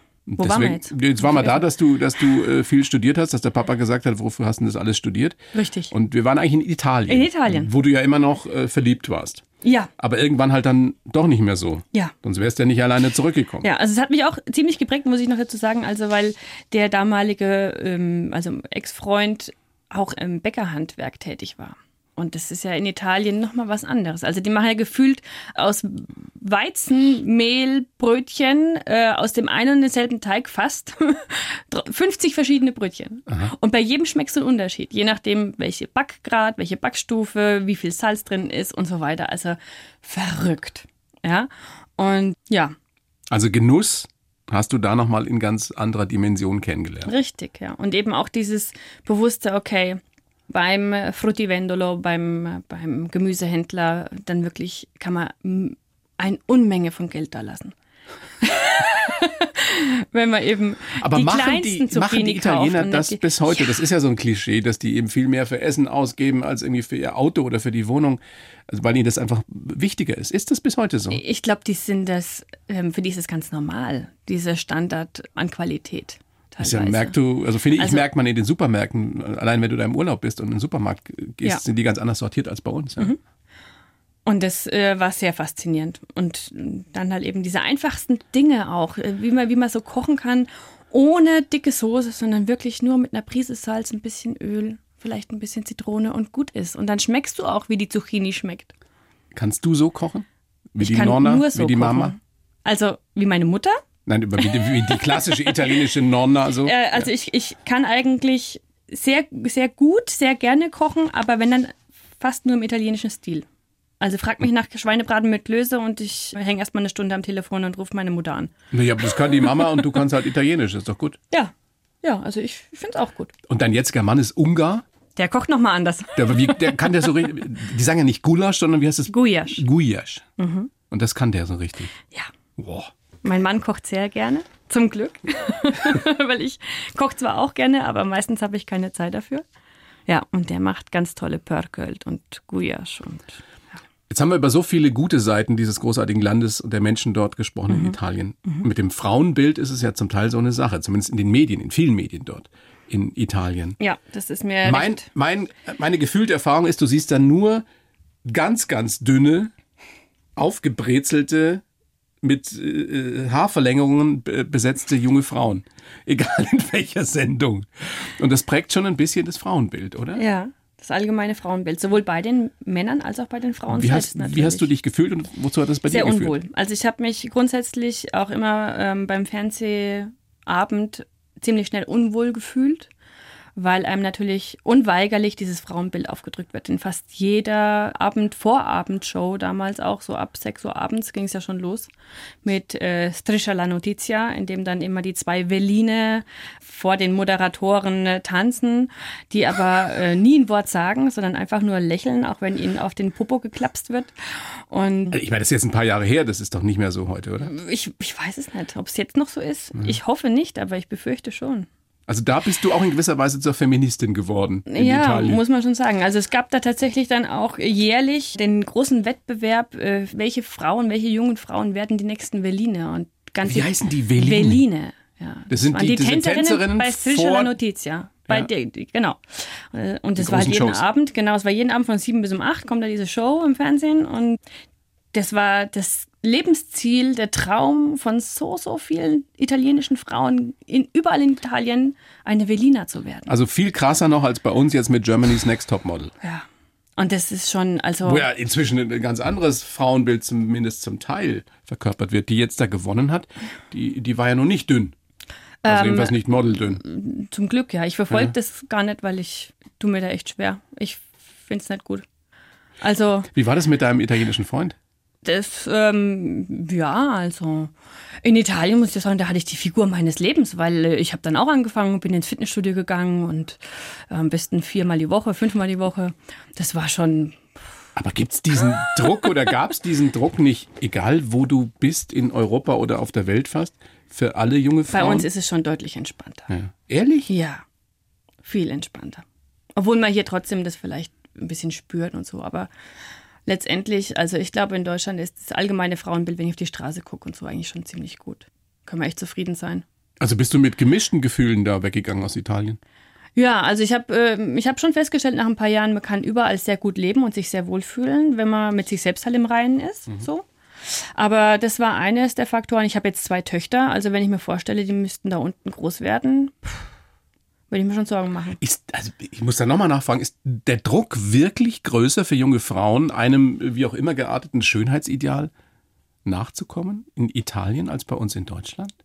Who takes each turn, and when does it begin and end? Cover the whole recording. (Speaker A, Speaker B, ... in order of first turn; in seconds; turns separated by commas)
Speaker A: 0.3-5.4, Speaker B: 0.4-1.6, Speaker B: 5.5-5.9, Speaker A: 5.9-9.4, Speaker B: 7.1-7.7, Speaker B: 9.6-9.9, Speaker A: 10.0-13.7, Speaker B: 13.6-42.8, Speaker A: 43.3-47.1, Speaker B: 47.1-57.7, Speaker B: 58.4-63.8, Speaker A: 61.0-71.2, Speaker B: 71.1-77.2, Speaker A: 76.6-83.1, Speaker B: 77.8-78.0, Speaker B: 84.3-98.7, Speaker A: 99.3-102.2, Speaker B: 100.8-103.8, Speaker A: 104.1-107.1, Speaker B: 104.4-105.5, Speaker B: 106.6-113.5, Speaker B: 114.0-118.5, Speaker A: 118.7-121.2, Speaker B: 122.0-123.3, Speaker A: 123.5-124.8, Speaker B: 125.2-126.7, Speaker A: 126.2-130.2, Speaker B: 129.1-129.6, Speaker B: 130.4-130.7, Speaker A: 130.9-131.9, Speaker A: 132.6-132.9, Speaker B: 133.2-139.4, Speaker B: 140.1-143.4, Speaker A: 144.1-153.8, Speaker B: 147.7-148.7, Speaker B: 153.8-155.1, Speaker A: 154.6-157.6, Speaker A: 158.2-159.5, Speaker A: 160.4-161.6, Speaker A: 162.2-170.2, Speaker B: 170.2-174.7, Speaker A: 173.7-176.3, Speaker B: 175.9-182.9, Speaker B: 183.6-191.9, Speaker B: 192.4-204.1, Speaker B: 204.7-205.2, Speaker A: 205.1-207.5, Speaker B: 207.4-211.7, Speaker A: 212.1-215.4, Speaker B: 214.7-234.4, Speaker A: 223.4-224.6, Speaker A: 225.5-227.5, Speaker A: 230.2-230.8, Speaker B: 235.1-243.3, Speaker A: 243.3-246.1, Speaker B: 247.0-248.3, Speaker A: 248.0-254.9, Speaker B: 255.6-262.1, Speaker A: 255.7-256.8, Speaker B: 262.8-263.3, Speaker A: 263.3-264.8, Speaker B: 265.2-267.7, Speaker B: 268.2-273.6, Speaker B: 274.1-277.5, Speaker A: 278.0-285.3, Speaker B: 284.9-286.5, Speaker A: 286.5-287.3, Speaker B: 287.3-287.6, Speaker B: 288.4-289.2, Speaker B: 289.8-292.7, Speaker B: 293.5-299.8, Speaker A: 300.2-302.8, Speaker B: 303.4-316.9, Speaker B: 317.7-318.6, Speaker A: 318.6-325.5, Speaker A: 326.2-328.9